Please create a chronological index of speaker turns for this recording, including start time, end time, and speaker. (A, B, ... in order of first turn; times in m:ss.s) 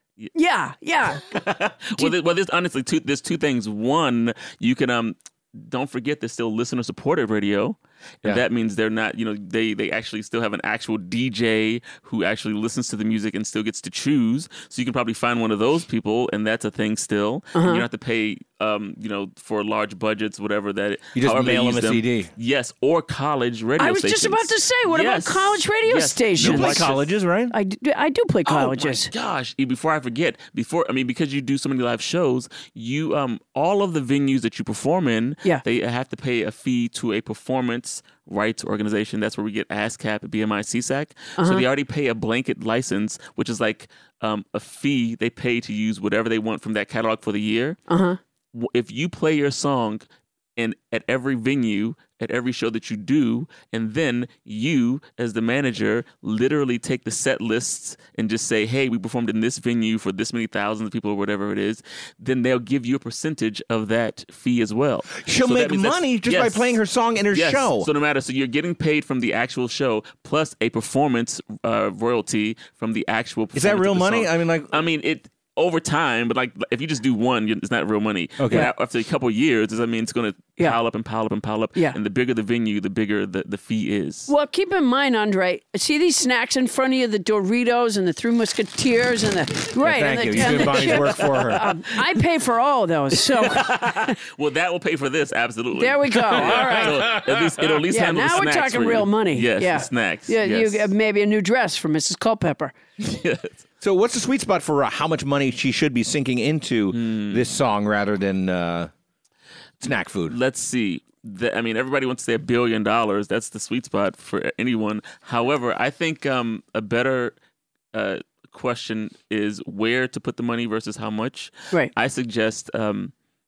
0:00.3-0:01.2 A
0:01.3-0:27.0 B
0:17.5-0:17.8 A
0:21.1-0:22.3 C
0:23.8-0:26.9 A
0:26.4-0:27.6 C
0:27.5-0:29.1 A
0:28.4-0:47.8 B
0:41.4-0:41.6 A
0:47.9-0:48.2 A
0:48.5-0:50.0 B
0:50.6-1:06.8 B
1:05.2-1:07.9 C
1:07.3-1:24.3 B
1:13.5-1:14.8 C
1:18.4-1:18.7 C
1:24.3-1:34.1 A
1:29.8-1:31.7 C
1:30.6-1:31.1 B
1:33.3-1:40.9 B
1:35.8-1:37.1 A
1:36.4-1:37.4 C
1:37.9-1:42.8 A
1:43.0-1:43.6 B
1:43.8-1:48.9 C
1:46.9-1:47.4 B
1:49.8-1:50.4 C
1:50.3-1:57.3 B
1:57.9-2:03.1 B